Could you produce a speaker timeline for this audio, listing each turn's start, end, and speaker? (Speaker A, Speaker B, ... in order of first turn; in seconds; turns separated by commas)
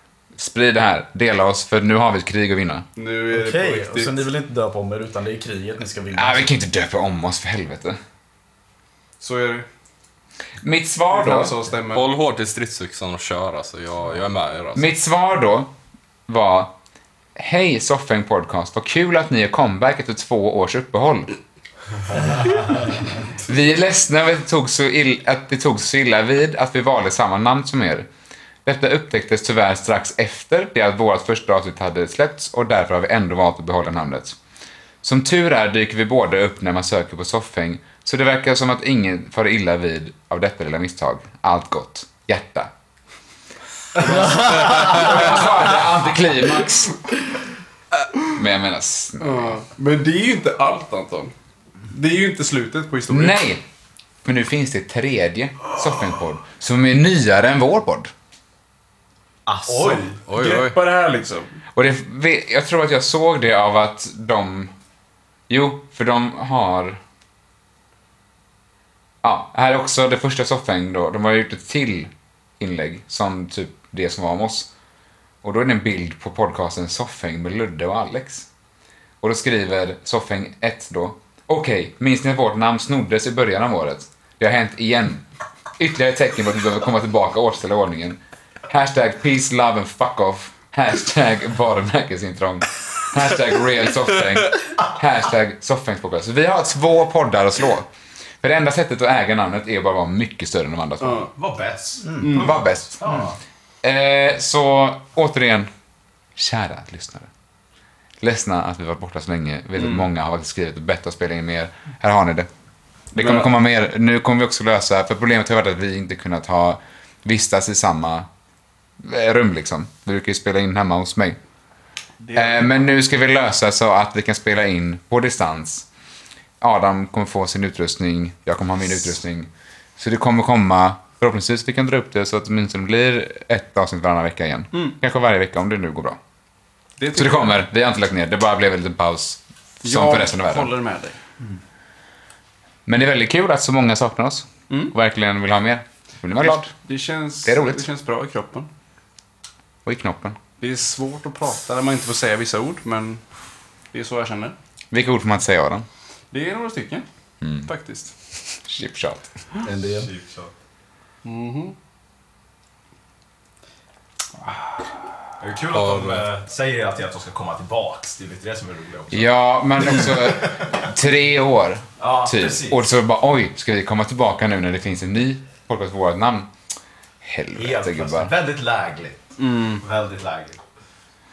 Speaker A: 0.4-2.9, Speaker B: 3.0-4.2, Speaker C: 3.3-6.5, Speaker A: 6.1-8.0, Speaker B: 9.2-9.7, Speaker A: 10.6-11.6, Speaker B: 11.1-12.1, Speaker D: 11.9-14.9, Speaker A: 14.8-15.7, Speaker A: 16.3-16.7, Speaker A: 17.4-21.3, Speaker A: 23.5-28.1, Speaker A: 28.6-34.4, Speaker A: 35.0-42.7, Speaker A: 44.0-47.0, Speaker C: 44.7-45.0, Speaker A: 48.3-49.6, Speaker B: 49.2-51.3, Speaker B: 51.9-53.4, Speaker A: 53.1-53.6, Speaker A: 54.2-58.1, Speaker C: 59.5-60.1, Speaker E: 59.6-60.1, Speaker D: 60.3-60.8, Speaker B: 60.3-61.5, Speaker A: 61.8-64.7, Speaker A: 65.5-67.0, Speaker A: 69.2-74.7, Speaker A: 75.4-78.5, Speaker A: 79.2-85.2, Speaker A: 85.8-97.9, Speaker A: 98.4-101.3, Speaker B: 101.0-101.3, Speaker E: 101.3-103.4, Speaker C: 102.1-102.3, Speaker B: 102.2-102.5, Speaker A: 102.3-103.0, Speaker A: 103.8-105.7, Speaker A: 106.4-107.3, Speaker A: 108.2-112.5, Speaker B: 109.8-110.0, Speaker A: 113.1-118.3, Speaker B: 113.2-113.5, Speaker A: 119.0-121.4, Speaker B: 122.2-122.8, Speaker A: 122.3-125.9, Speaker A: 126.6-136.2, Speaker B: 137.0-137.6, Speaker A: 137.1-140.7, Speaker B: 139.8-141.2, Speaker A: 142.9-146.7, Speaker B: 146.4-148.7, Speaker A: 147.4-147.9, Speaker A: 149.9-150.4, Speaker B: 150.6-153.2, Speaker B: 153.9-154.6, Speaker A: 154.9-155.9, Speaker B: 156.3-157.1, Speaker A: 157.4-157.7, Speaker B: 157.7-158.1, Speaker A: 158.7-159.3, Speaker C: 159.6-160.1, Speaker E: 159.9-160.5, Speaker B: 161.2-161.8, Speaker E: 165.4-169.3, Speaker D: 165.7-166.2, Speaker A: 169.1-176.5, Speaker E: 169.8-170.6, Speaker E: 172.0-172.8, Speaker A: 177.2-178.3, Speaker E: 177.6-179.3, Speaker B: 179.4-179.8, Speaker E: 179.8-180.6